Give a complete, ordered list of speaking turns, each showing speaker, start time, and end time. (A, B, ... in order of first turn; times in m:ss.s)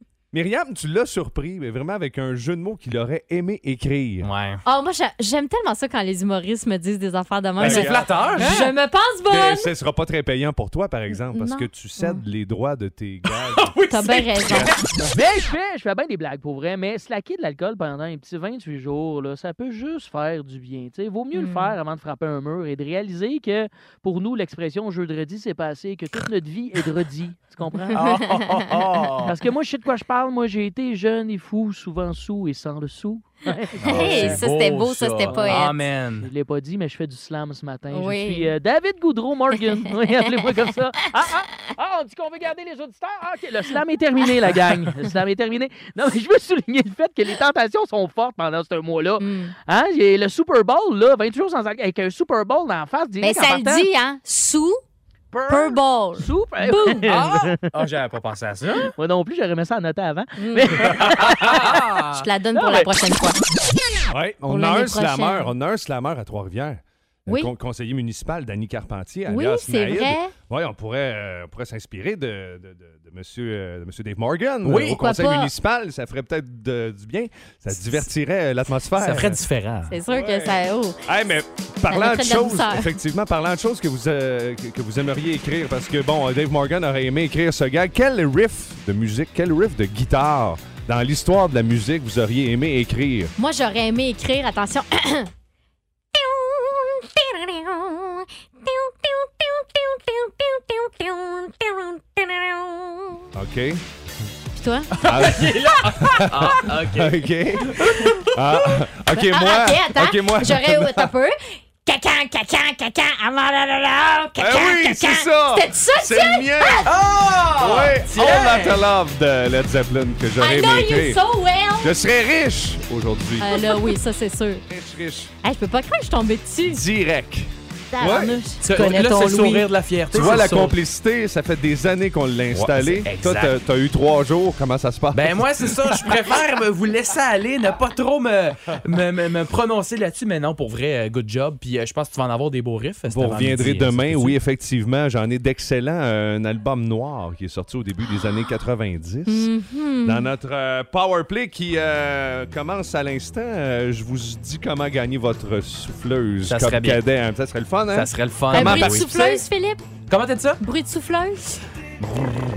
0:00.3-0:04.3 A
0:04.2-0:04.6 B
0:04.6-0:09.7 C
0:07.6-0:08.7 B
0:07.6-0:08.6 A
0:09.3-0:13.8 A
0:11.3-0:12.2 C
0:13.5-0:15.0 B
0:13.9-0:14.8 C
0:15.1-0:28.2 D
0:21.3-0:21.7 C
0:27.9-0:29.4 B
0:28.1-0:28.7 C
0:29.2-0:34.4 D
0:33.8-0:36.3 B
0:33.9-0:35.7 C
0:35.3-0:53.9 D
0:37.9-0:38.5 C
0:49.2-0:49.5 C
0:53.2-0:54.8 C
0:55.3-0:55.7 B
0:55.5-0:57.1 C
0:56.2-0:57.6 D
0:57.0-0:58.9 B
0:59.0-1:01.7 D
1:00.4-1:01.6 C
1:01.0-1:02.3 B
1:02.1-1:03.4 C
1:02.6-1:02.9 D
1:04.1-1:19.4 A
1:04.5-1:05.5 C
1:07.3-1:07.5 C
1:09.3-1:10.3 C
1:14.6-1:15.0 B
1:15.0-1:15.5 C
1:19.0-1:20.0 B
1:19.9-1:21.0 C
1:20.1-1:20.5 A
1:21.0-1:33.3 A
1:21.9-1:23.0 C
1:33.4-1:35.3 C
1:36.1-1:43.2 C
1:43.4-1:43.8 A
1:44.6-1:45.7 C
1:45.0-1:48.2 B
1:45.0-1:51.1 A
1:48.8-1:56.9 C
1:54.4-1:57.0 A
1:56.8-1:58.5 B
1:57.5-2:01.2 A
1:58.1-1:58.6 C
2:00.4-2:02.0 C
2:01.8-2:03.9 A
2:03.4-2:04.6 C
2:04.7-2:05.3 A
2:05.4-2:06.8 C
2:06.6-2:08.9 A
2:07.9-2:09.7 C
2:08.6-2:10.8 B
2:10.1-2:15.7 A
2:12.5-2:13.6 B
2:15.1-2:24.4 B
2:23.1-2:29.5 A
2:29.3-2:30.3 C
2:30.0-2:39.4 A
2:36.4-2:37.0 B
2:37.9-2:39.4 B
2:38.5-2:39.8 C
2:40.1-2:40.6 B
2:40.6-2:41.6 C
2:42.0-2:42.4 B